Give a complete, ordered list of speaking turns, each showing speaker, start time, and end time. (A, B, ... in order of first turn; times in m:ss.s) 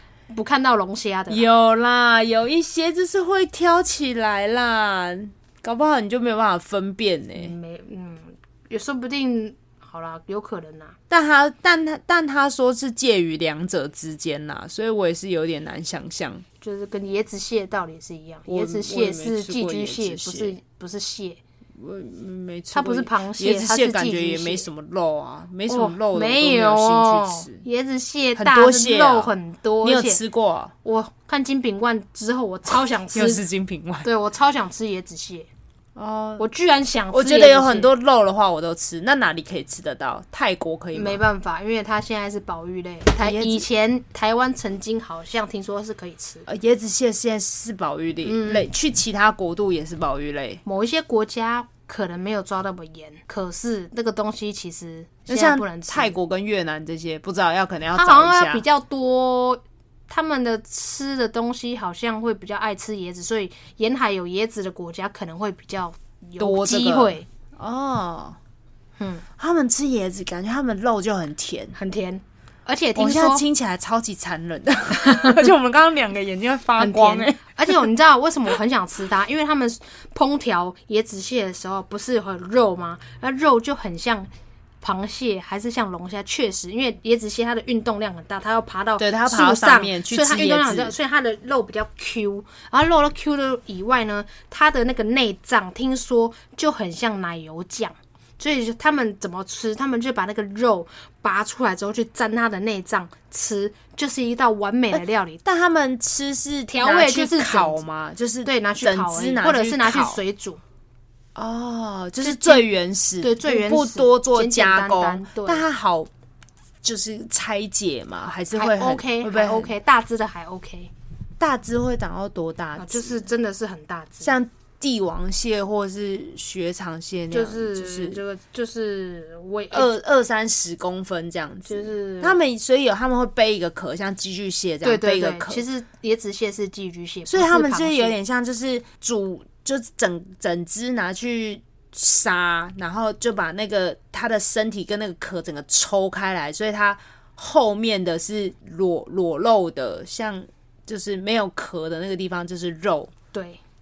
0:00.3-0:01.4 A
0:01.3-0:07.6 B
0:07.4-0:11.0 A
0:11.1-0:16.4 B
0:16.6-0:21.4 A
0:18.5-0:20.6 B
0:21.8-0:27.6 B
0:22.7-0:24.6 A
0:25.7-0:30.2 A
0:28.4-0:30.7 B
0:30.8-0:33.4 A
0:33.1-0:34.1 B
0:34.0-0:35.5 A
0:36.0-0:36.4 B
0:36.4-0:37.9 A
0:37.1-0:41.2 B
0:40.9-0:46.5 A
0:43.2-0:43.7 B
0:46.5-0:50.6 B
0:48.2-0:48.7 A
0:50.6-0:56.2 A
0:55.3-0:58.6 B
0:58.0-1:07.2 A
1:06.4-1:08.4 B
1:09.0-1:09.2 A
1:09.4-1:11.7 B
1:11.7-1:13.4 A
1:13.0-1:17.7 B
1:15.0-1:15.4 A
1:16.8-1:24.3 A
1:24.8-1:45.4 A
1:29.0-1:30.9 B
1:45.4-1:50.2 B
1:46.7-1:47.8 A
1:48.4-1:50.6 A
1:51.4-1:56.1 B
1:52.2-1:52.6 A
1:53.2-1:55.6 A
1:56.8-1:59.7 B
1:58.5-2:00.9 A
2:01.4-2:03.3 B
2:02.8-2:04.4 A
2:04.2-2:08.2 B
2:07.3-2:10.0 A
2:09.7-2:15.6 B
2:11.6-2:12.4 A
2:14.8-2:18.2 A
2:17.3-2:33.1 B
2:33.3-2:33.6 A